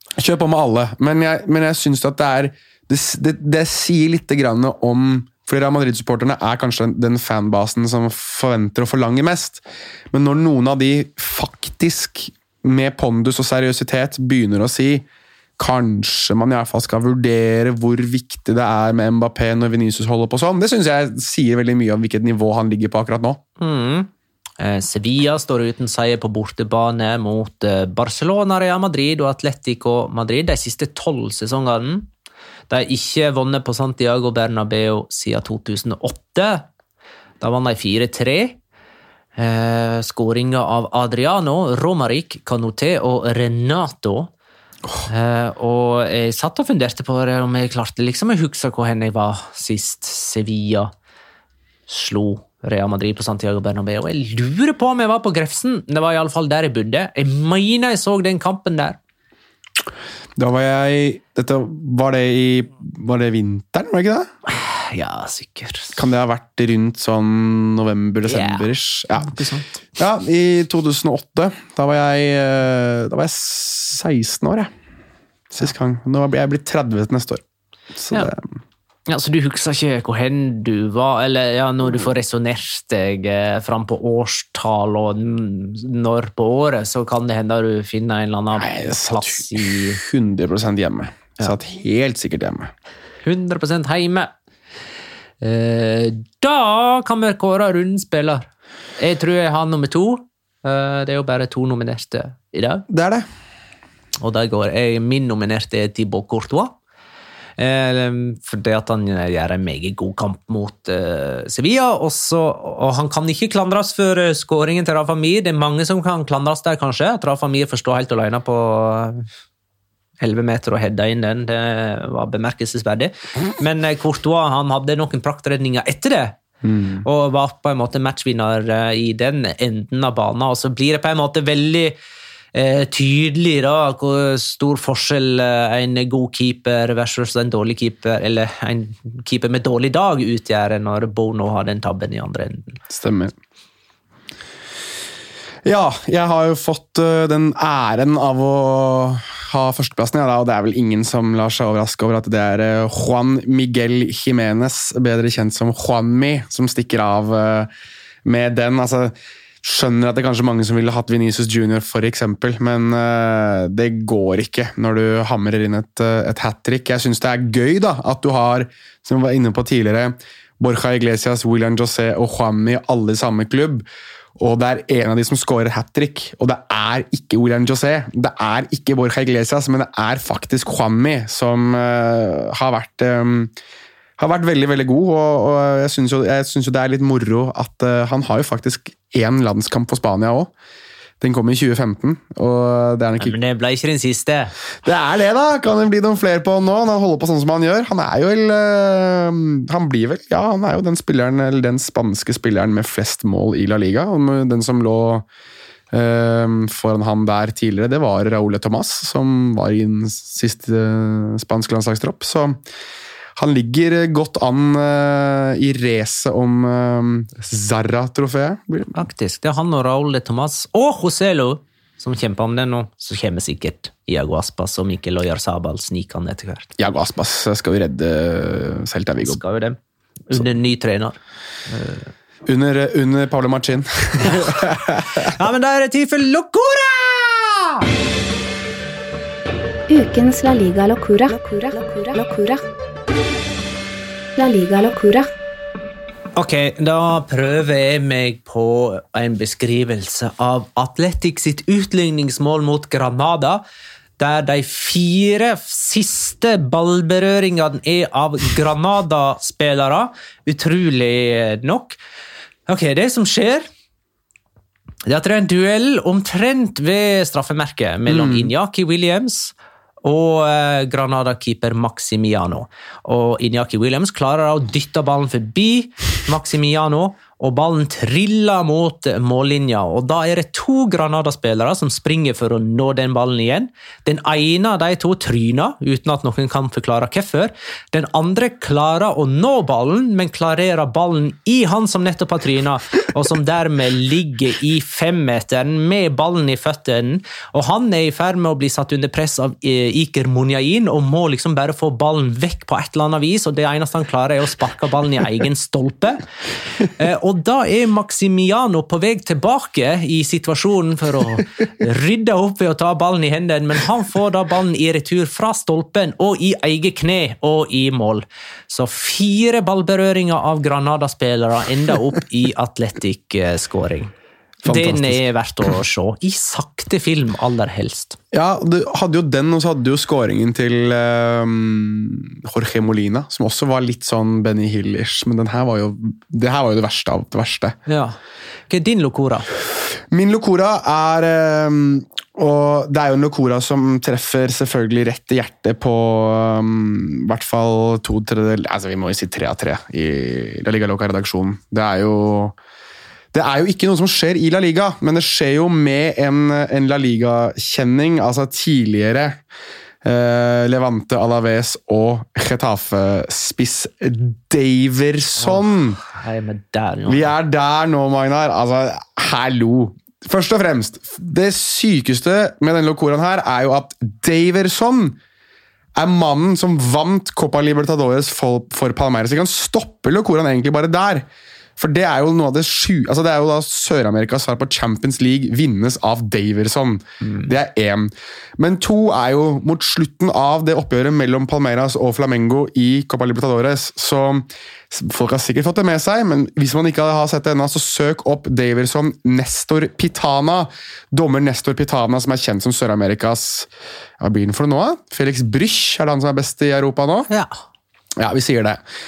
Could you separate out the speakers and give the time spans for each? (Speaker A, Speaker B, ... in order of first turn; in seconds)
Speaker A: 0.2-15.0, 15.6-23.4, 60.4-64.3, 65.9-69.3, 70.0-74.7, 75.5-77.4, 78.0-78.5, 88.5-92.7, 102.9-103.2, 126.6-127.0, 142.9-143.3, 145.6-157.7, 158.2-173.8, 174.4-183.5, 184.2-190.5, 191.2-193.3, 194.8-205.2, 205.9-212.6, 213.3-218.9, 226.8-229.4, 232.4-235.3, 268.1-268.5, 324.6-325.2, 328.3-337.8, 339.9-352.6, 353.3-359.4, 360.0-366.0, 367.1-375.2, 375.9-381.3, 381.8-407.3, 408.2-408.8
Speaker B: 23.6-32.1, 32.7-36.7, 37.4-38.6, 39.4-44.3, 45.0-50.9, 51.9-59.0, 64.5-66.0, 68.3-69.7, 79.1-90.0, 93.2-94.3, 95.4-98.5, 99.0-102.8, 104.2-106.7, 107.6-119.2, 120.2-126.4, 127.0-131.9, 132.5-142.8, 193.2-194.5, 218.9-226.7, 229.2-229.8, 230.3-232.1, 234.2-234.5, 235.2-237.8, 246.3-253.6, 254.2-262.0, 262.7-263.7, 265.1-306.2, 306.8-324.1, 324.6-328.2, 337.9-338.2, 338.7-339.5, 365.4-367.3
Speaker C: 239.9-242.6, 244.3-245.3